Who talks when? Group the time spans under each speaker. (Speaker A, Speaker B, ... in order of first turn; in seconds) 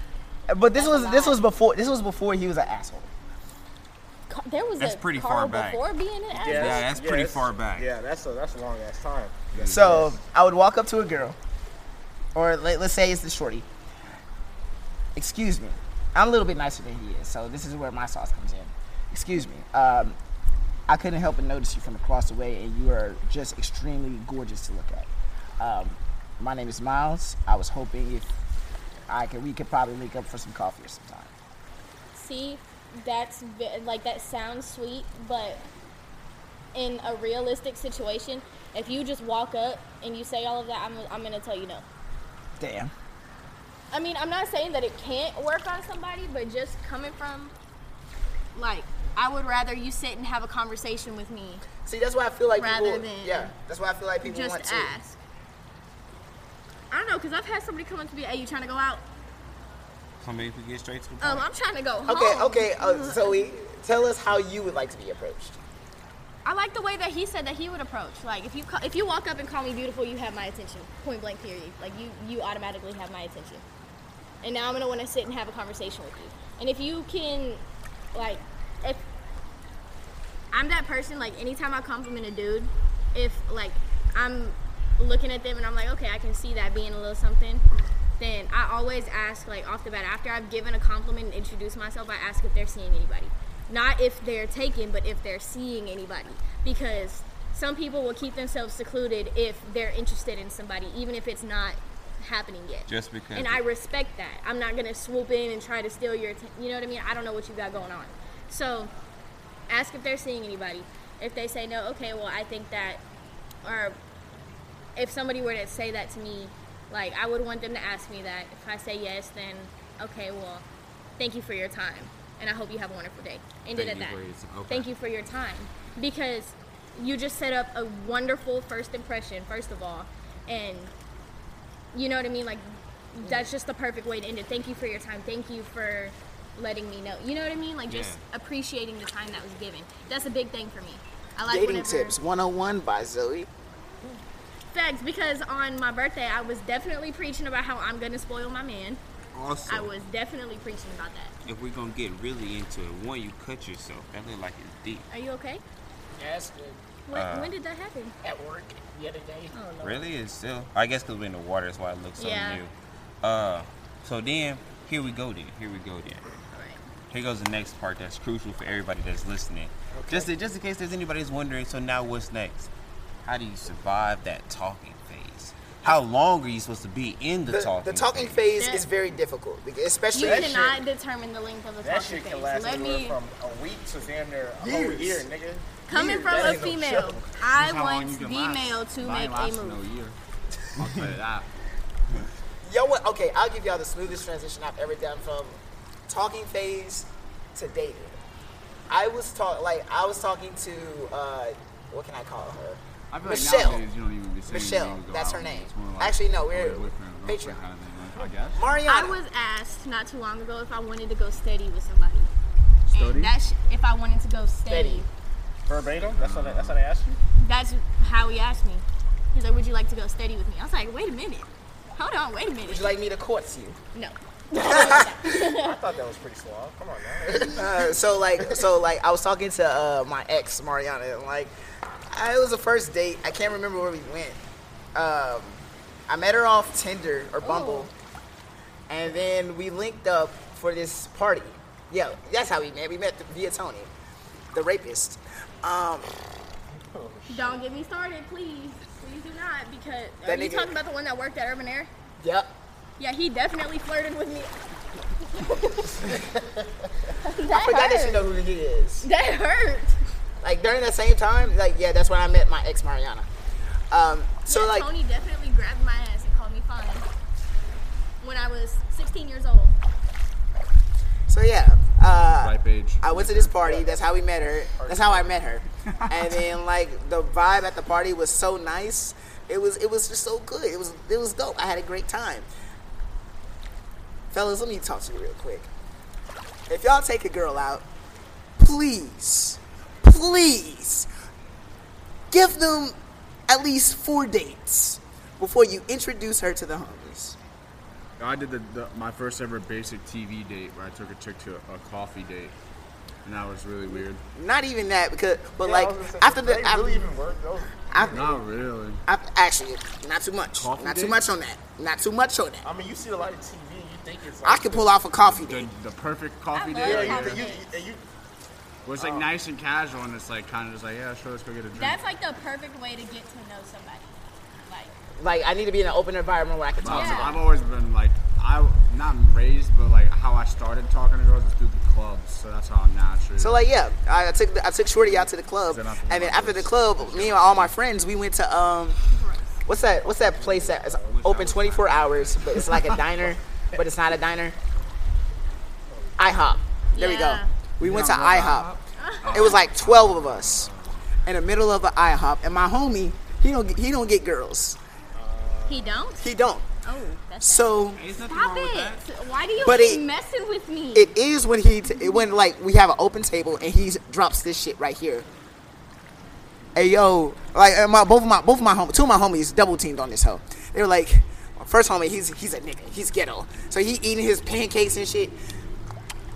Speaker A: 0.5-3.1, 9.7-11.4, 12.3-13.7, 15.1-20.2, 20.9-25.1, 25.6-28.3, 29.1-31.3, 42.6-42.9, 51.8-54.9, 62.1-65.5, 133.2-133.5, 141.4-143.5, 156.2-156.8, 158.2-159.5, 169.9-170.3, 177.5-180.8, 184.6-185.3, 185.9-186.9, 192.6-198.2, 198.9-203.9, 204.5-207.6, 208.6-209.2, 214.7-215.1, 222.7-223.8, 224.6-225.2, 227.5-231.5, 232.1-234.4, 234.9-237.9, 238.9-243.9, 244.5-246.1, 250.2-250.7, 252.2-252.5, 257.5-259.1, 260.4-263.3, 263.9-264.9, 271.3-282.5, 284.3-285.7, 286.7-287.8, 288.6-291.1, 292.3-292.9, 293.5-297.4, 303.9-307.1, 307.9-308.4, 309.1-312.6, 314.4-315.7, 325.2-327.4, 333.4-339.0, 339.6-344.6, 346.2-348.7, 349.3-350.7, 351.2-354.8, 356.2-356.6, 357.4-358.0, 359.6-360.0, 360.9-365.3, 366.7-375.4
Speaker B: 0.7-1.4, 4.3-6.9, 32.1-35.6, 36.7-41.8, 43.9-47.5, 48.5-51.6, 52.5-53.5, 54.2-55.2, 56.9-59.0, 61.2-63.5, 66.5-73.6, 74.4-77.6, 78.1-79.0, 80.5-87.6, 88.2-108.9, 109.7-113.0, 113.6-114.0, 115.0-120.6, 121.2-130.9, 131.9-142.2, 144.7-149.0, 149.7-151.3, 155.1-155.6, 157.1-158.2, 159.5-160.1, 162.2-162.6, 166.5-166.8, 178.6-178.8, 180.1-183.2, 185.9-189.8, 208.9-212.3, 212.9-215.1, 217.4-222.9, 223.9-225.8, 237.4-237.9, 247.3-251.9, 253.0-254.6, 255.2-256.0, 257.2-258.2, 259.0-260.0, 264.5-267.1, 268.2-269.8, 316.5-317.7, 321.7-324.9, 326.9-327.4, 339.1-339.6, 346.9-347.5, 349.0-349.3, 355.7-356.2, 356.8-361.1
Speaker C: 4.8-5.8, 6.4-7.9, 60.2-61.5, 102.9-103.6, 123.7-124.9, 137.9-138.2, 149.3-149.9, 151.4-155.1, 157.1-157.5, 159.8-162.7, 163.2-166.3, 167.1-172.7, 173.2-178.4, 341.0-342.7, 357.9-359.0
Speaker D: 6.3-10.2, 180.2-180.6, 181.8-187.3, 215.7-217.2, 224.7-228.7, 246.9-247.6, 256.0-256.9, 273.6-275.4, 305.6-308.4, 312.6-314.9, 316.8-318.0, 319.0-319.3, 340.0-341.2, 345.9-346.4, 355.1-356.1
Speaker E: 9.5-10.2, 187.5-190.2, 190.8-191.5, 203.1-208.7, 212.9-213.3, 216.0-216.8, 272.3-273.6, 298.2-302.6, 303.2-304.2, 308.1-309.0, 310.5-311.3, 315.2-317.4, 318.8-322.0, 326.8-333.7, 335.1-337.8, 347.8-351.0